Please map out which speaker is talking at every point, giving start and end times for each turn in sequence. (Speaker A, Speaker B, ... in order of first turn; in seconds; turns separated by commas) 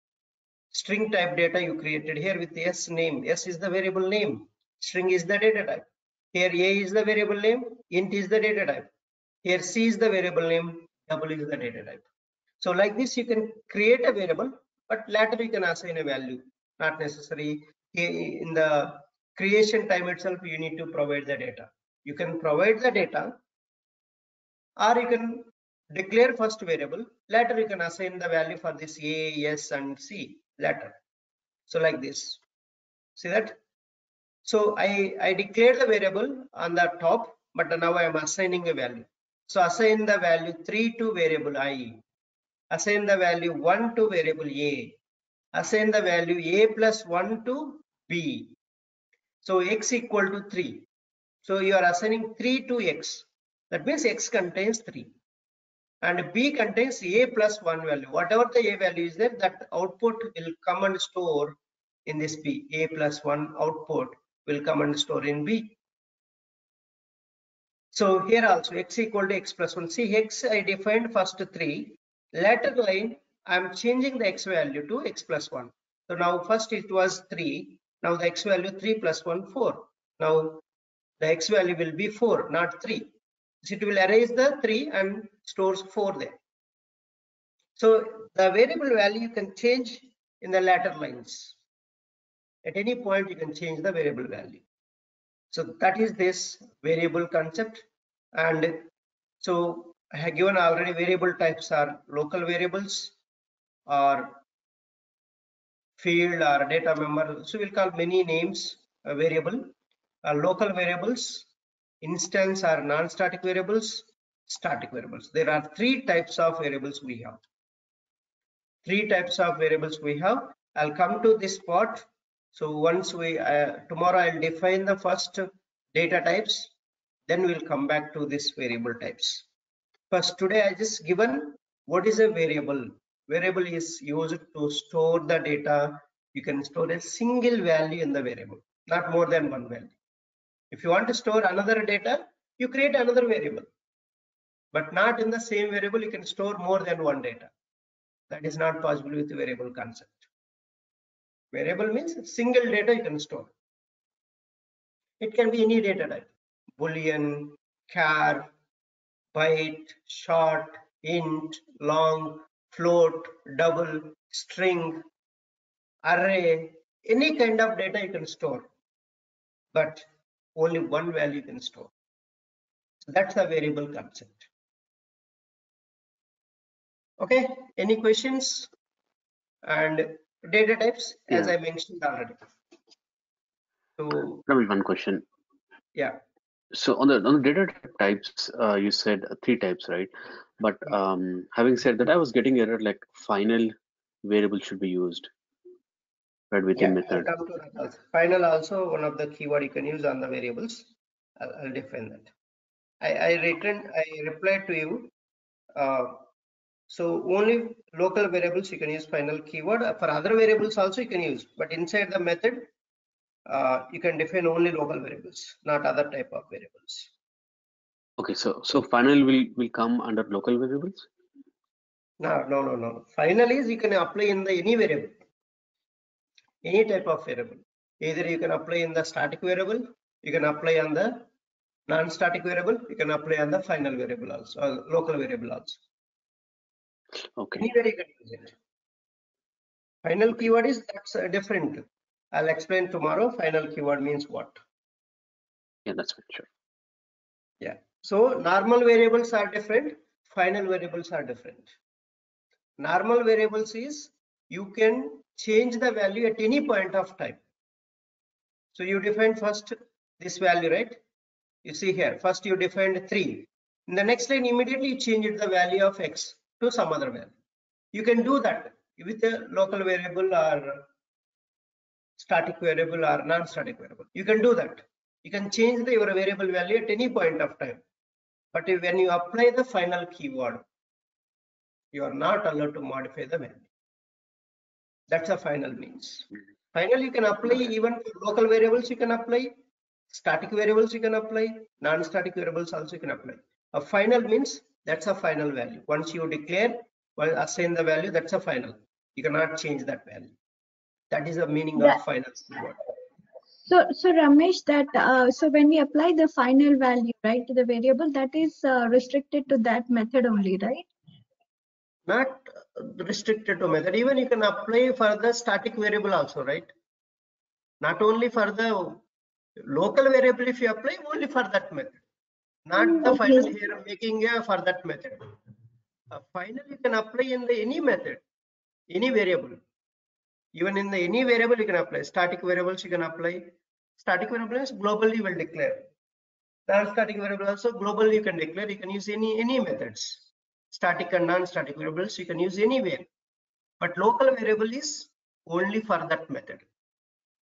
Speaker A: 0.7-8.9, Speaker A: 9.4-12.1, Speaker A: 12.6-23.4, Speaker A: 24.8-30.9, Speaker A: 31.7-32.4, Speaker A: 33.2-33.6, Speaker A: 34.5-42.0, Speaker A: 42.7-44.9, Speaker A: 45.5-48.5, Speaker A: 49.4-50.9, Speaker A: 51.4-55.1, Speaker A: 56.0-65.8, Speaker A: 67.9-80.6, Speaker A: 81.2-86.4, Speaker A: 87.8-91.5, Speaker A: 92.6-94.6, Speaker A: 95.5-98.9, Speaker A: 99.4-103.1, Speaker A: 103.9-104.4, Speaker A: 106.0-109.7, Speaker A: 110.2-111.5, Speaker A: 112.0-117.4, Speaker A: 118.8-126.7, Speaker A: 127.3-129.4, Speaker A: 130.1-139.9, Speaker A: 140.7-143.7, Speaker A: 144.7-147.5, Speaker A: 148.3-150.3, Speaker A: 151.5-153.5, Speaker A: 155.2-158.5, Speaker A: 159.3-165.0, Speaker A: 166.0-168.7, Speaker A: 169.7-171.9, Speaker A: 173.0-174.5, Speaker A: 177.2-178.7, Speaker A: 179.6-182.4, Speaker A: 184.0-184.4, Speaker B: 184.5-185.2, Speaker B: 186.7-195.3, Speaker B: 196.5-197.3, Speaker A: 196.8-200.9, Speaker A: 201.4-202.3, Speaker A: 203.0-205.1, Speaker A: 205.8-206.2, Speaker A: 206.9-212.7, Speaker A: 213.5-217.1, Speaker B: 218.2-221.1, Speaker A: 222.2-225.2, Speaker A: 226.6-231.3, Speaker A: 231.9-235.8, Speaker B: 237.4-237.6, Speaker A: 237.6-238.5, Speaker A: 240.0-244.6, Speaker B: 245.9-246.5, Speaker A: 247.6-251.7, Speaker A: 252.8-257.4, Speaker A: 258.7-261.0, Speaker A: 261.6-267.3, Speaker A: 267.9-270.9, Speaker A: 272.2-277.8, Speaker A: 278.5-280.6, Speaker A: 281.9-283.7, Speaker A: 285.1-289.6, Speaker A: 290.1-300.3, Speaker A: 301.1-302.8, Speaker C: 303.6-310.9, Speaker A: 312.1-316.7, Speaker A: 317.8-319.0, Speaker A: 319.6-322.0, Speaker A: 322.7-325.4, Speaker C: 322.8-323.5, Speaker A: 326.1-328.2, Speaker A: 328.9-329.6, Speaker A: 330.5-335.9, Speaker A: 336.7-343.1, Speaker A: 343.8-346.6